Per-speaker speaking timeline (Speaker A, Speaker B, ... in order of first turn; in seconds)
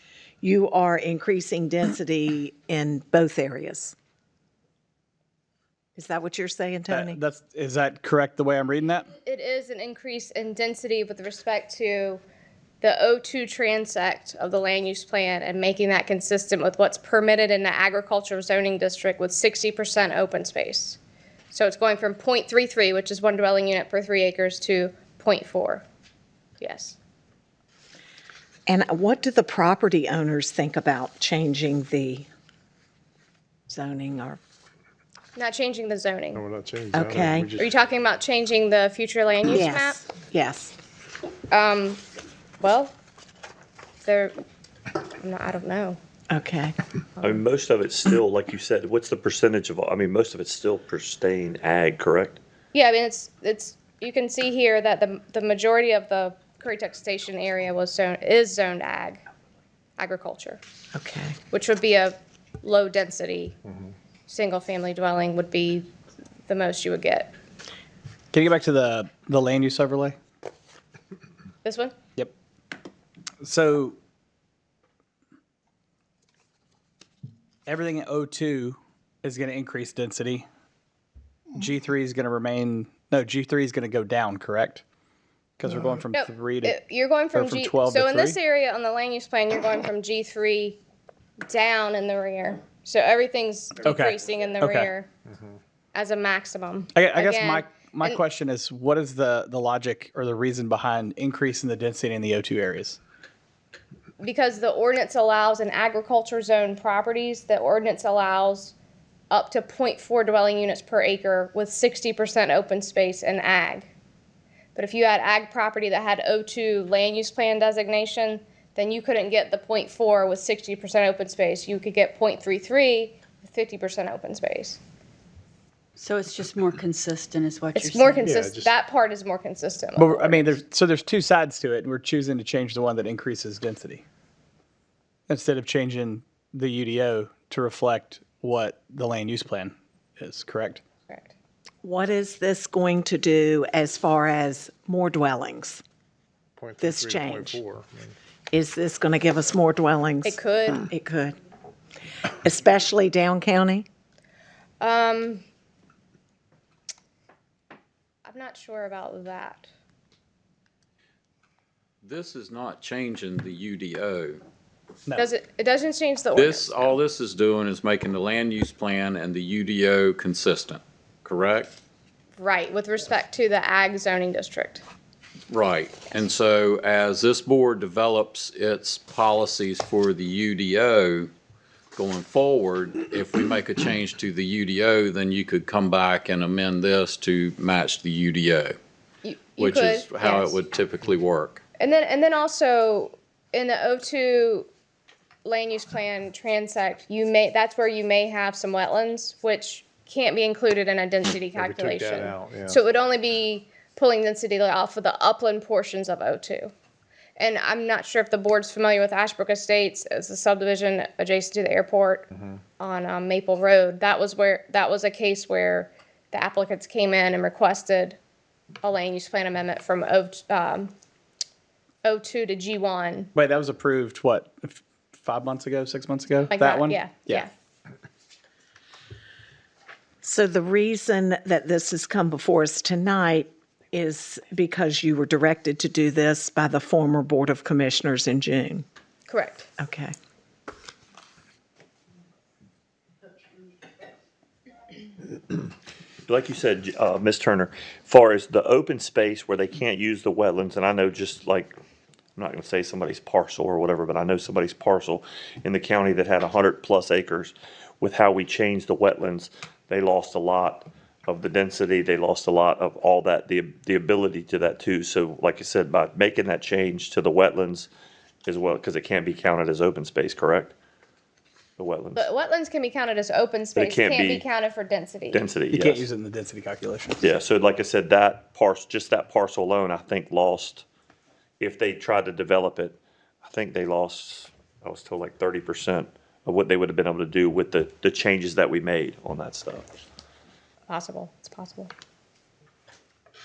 Speaker A: 0.4-3.9, 6.0-7.2, 28.7-32.3, 33.7-34.4, 36.9-37.5, 39.5-40.7, 46.3-46.7, 60.9-61.4, 141.8-145.8, 146.8-147.6, 148.5-151.4, 152.4-153.8, 230.2-238.8, 239.8-240.1
Speaker B: 6.9-9.1, 68.3-70.2, 73.4-74.0, 77.7-80.5, 81.5-84.8, 85.6-86.7, 87.3-88.4, 93.8-94.9, 96.9-103.0, 129.9-134.0, 135.3-140.8, 223.3-227.4, 275.7-277.2
Speaker C: 9.2-12.2, 12.8-21.0, 21.5-25.8, 26.6-27.0, 35.3-36.4, 37.5-40.0, 41.5-42.0, 42.6-42.9, 44.0-44.3, 45.2-46.0, 52.7-59.2, 60.0-60.6, 61.5-63.6, 64.3-65.9, 66.5-67.3, 71.6-71.9, 86.1-90.8, 91.5-95.1, 95.9-98.2, 104.2-108.7, 109.3-113.9, 114.8-124.8, 127.8-130.5, 150.2-150.9, 154.8-155.4, 158.2-159.7, 165.1-167.0, 172.4-174.8, 189.2-190.6, 191.8-194.7, 195.4-206.7, 207.4-212.3, 212.8-218.2, 218.8-220.9, 222.0-223.3, 226.5-227.5, 239.3-239.7, 272.1-275.4, 290.9-291.9
Speaker D: 36.3-37.7, 128.2-128.7, 146.6-148.1, 201.5-202.8
Speaker E: 47.2-52.4, 246.3-251.8, 252.3-267.9, 268.4-270.7, 271.8-272.3, 273.7-274.4, 275.3-276.1, 277.2-280.8, 281.6-289.9
Speaker F: 126.0-128.3
Speaker G: 162.0-164.4, 166.3-171.7, 175.5-181.3, 181.9-188.8, 189.6-191.6